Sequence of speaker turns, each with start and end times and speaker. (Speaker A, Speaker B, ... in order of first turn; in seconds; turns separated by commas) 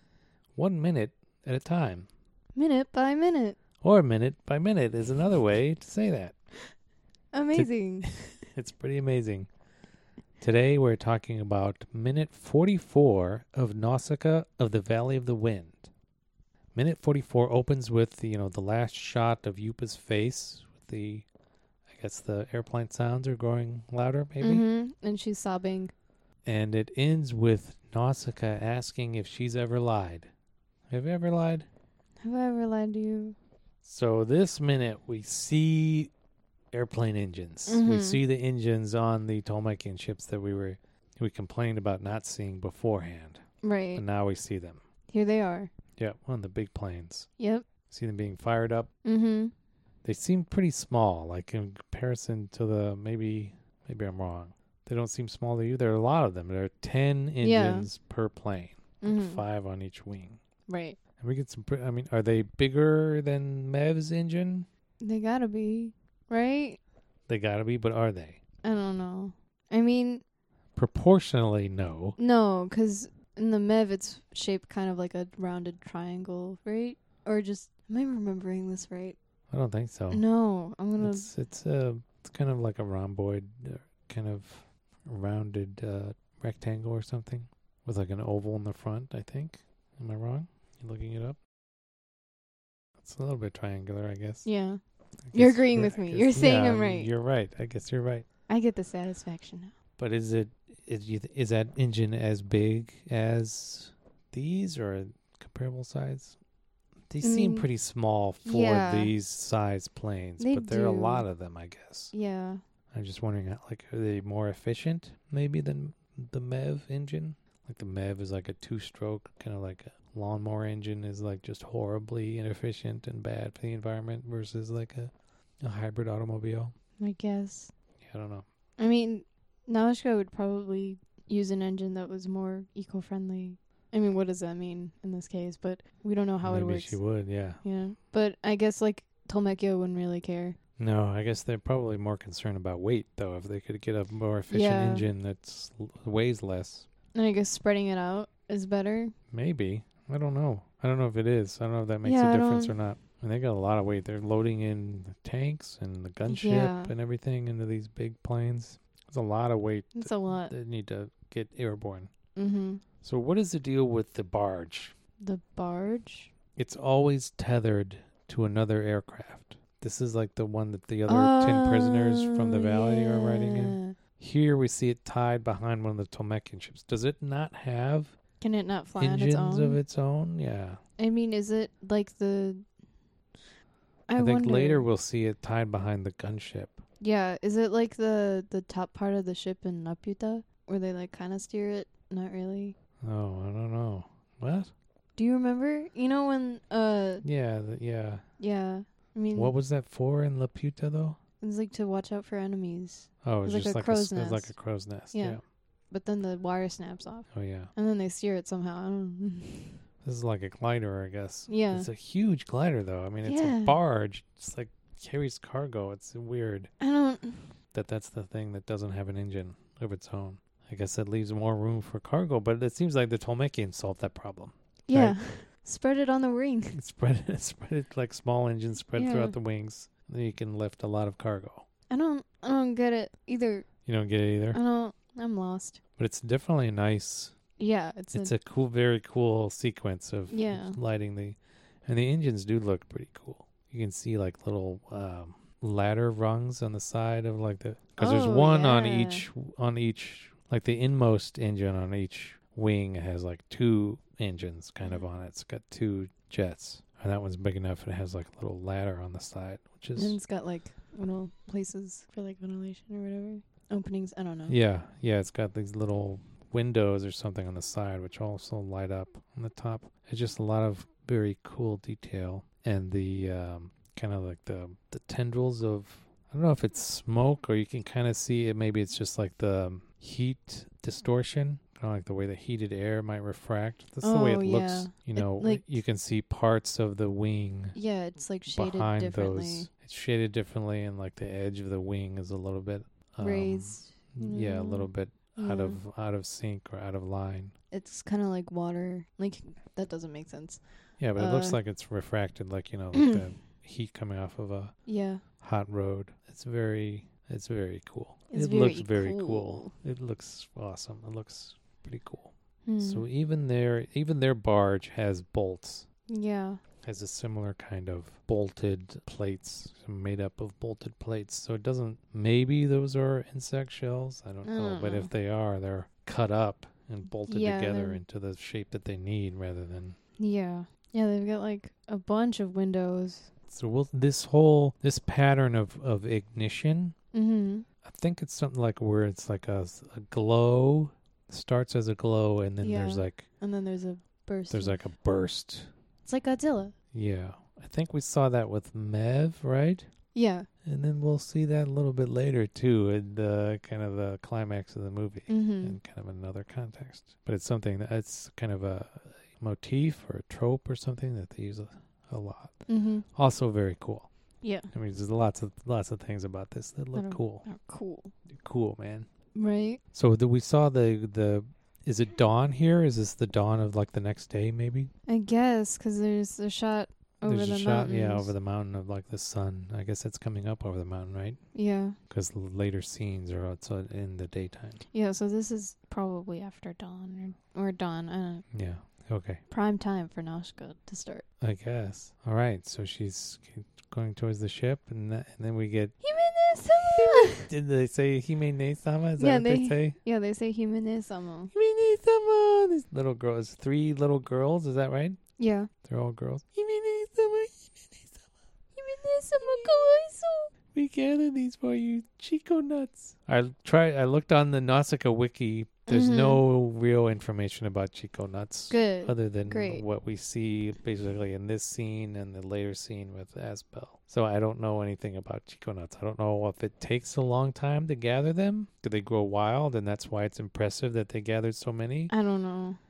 Speaker A: 0.6-2.1, Speaker B: 2.5-3.6, Speaker A: 3.8-6.3, Speaker B: 7.3-8.1, Speaker A: 7.5-9.5, Speaker A: 10.4-15.9, Speaker A: 16.7-21.2, Speaker A: 21.9-24.6, Speaker B: 24.4-25.9, Speaker A: 26.4-30.3, Speaker A: 30.9-31.7, Speaker B: 32.2-33.4, Speaker A: 33.8-36.1, Speaker A: 36.7-44.8, Speaker B: 37.7-38.2, Speaker B: 43.6-44.0, Speaker B: 45.1-45.7, Speaker A: 46.0-47.3, Speaker B: 47.4-47.6, Speaker A: 47.9-48.9, Speaker B: 49.0-49.5, Speaker A: 50.0-60.4, Speaker B: 57.4-57.9, Speaker B: 59.0-59.4, Speaker B: 60.7-61.0, Speaker A: 61.2-64.7, Speaker B: 65.0-66.8, Speaker A: 67.3-68.4, Speaker B: 68.6-70.2, Speaker A: 70.8-72.2, Speaker B: 72.2-79.2, Speaker A: 79.5-80.2, Speaker B: 80.1-81.3, Speaker A: 81.0-91.4, Speaker A: 93.0-94.5, Speaker B: 94.4-94.8, Speaker A: 95.3-98.3, Speaker B: 95.3-97.1, Speaker B: 98.5-99.7, Speaker A: 100.0-106.4, Speaker A: 107.1-112.1, Speaker B: 107.2-107.7, Speaker B: 108.4-109.1, Speaker B: 110.4-111.3, Speaker B: 112.1-112.6, Speaker A: 112.9-125.1, Speaker A: 125.6-126.7, Speaker B: 127.0-127.7, Speaker A: 128.0-128.4, Speaker B: 128.8-137.0, Speaker A: 136.4-137.6, Speaker B: 137.6-140.6, Speaker A: 140.8-146.9, Speaker B: 144.5-145.1, Speaker B: 147.1-149.1, Speaker A: 149.3-162.1, Speaker B: 152.0-152.7, Speaker B: 156.3-156.9, Speaker B: 160.0-160.5, Speaker B: 162.3-162.8, Speaker A: 163.0-164.9, Speaker B: 165.2-166.3, Speaker A: 166.6-178.2, Speaker B: 171.1-173.9, Speaker B: 178.4-179.8, Speaker A: 179.0-180.8, Speaker B: 181.0-182.6, Speaker B: 184.1-184.9, Speaker A: 184.2-186.8, Speaker B: 187.0-192.8, Speaker A: 193.0-194.7, Speaker B: 195.2-197.2, Speaker A: 197.2-198.2, Speaker B: 198.4-199.5, Speaker A: 199.3-201.2, Speaker B: 201.4-204.6, Speaker A: 203.2-205.4, Speaker B: 205.1-205.4, Speaker B: 205.9-209.8, Speaker A: 207.3-207.7, Speaker A: 210.0-216.7, Speaker B: 211.5-211.9, Speaker B: 213.2-213.8, Speaker B: 216.8-217.5, Speaker A: 217.7-225.2, Speaker B: 224.9-226.8, Speaker A: 226.7-231.7, Speaker B: 228.9-229.3, Speaker B: 231.9-233.7, Speaker A: 233.8-234.6, Speaker B: 234.5-235.8, Speaker A: 236.0-237.3, Speaker B: 237.6-238.3, Speaker A: 238.1-260.2, Speaker B: 240.3-240.8, Speaker B: 248.0-249.3, Speaker B: 260.0-264.6, Speaker A: 264.5-287.7, Speaker B: 284.0-285.8, Speaker B: 287.7-289.7, Speaker A: 288.5-297.5, Speaker B: 293.2-295.8, Speaker B: 297.7-300.6, Speaker A: 301.0-304.7, Speaker B: 301.1-301.6, Speaker B: 302.9-303.2, Speaker B: 304.9-305.2, Speaker A: 305.4-315.9, Speaker B: 308.3-309.7, Speaker B: 312.6-313.1, Speaker B: 316.1-316.6, Speaker A: 316.8-330.0, Speaker B: 324.4-325.1, Speaker B: 327.2-328.0, Speaker B: 330.2-333.3, Speaker A: 333.5-336.9, Speaker B: 337.1-337.6, Speaker A: 337.8-343.2, Speaker B: 342.6-344.8, Speaker A: 344.5-345.7, Speaker B: 346.0-346.7, Speaker A: 346.9-349.9, Speaker B: 350.1-350.5, Speaker A: 350.6-364.1, Speaker B: 355.3-355.8, Speaker B: 362.7-363.1, Speaker B: 364.4-364.7, Speaker A: 364.7-367.4, Speaker B: 366.9-368.1, Speaker A: 368.3-369.1, Speaker B: 369.3-369.8, Speaker A: 369.9-374.9, Speaker B: 375.1-378.3, Speaker A: 377.2-381.4, Speaker B: 381.5-382.0, Speaker A: 382.1-384.8, Speaker B: 384.9-388.4, Speaker A: 388.5-389.4, Speaker B: 389.5-391.2, Speaker A: 391.4-395.9, Speaker B: 396.0-397.5, Speaker A: 396.8-400.0, Speaker B: 399.2-401.5, Speaker A: 401.5-405.2, Speaker B: 405.4-405.7, Speaker A: 405.8-408.2, Speaker B: 408.8-410.5, Speaker A: 410.7-432.1, Speaker B: 415.9-416.4, Speaker B: 418.7-419.8, Speaker B: 432.1-432.8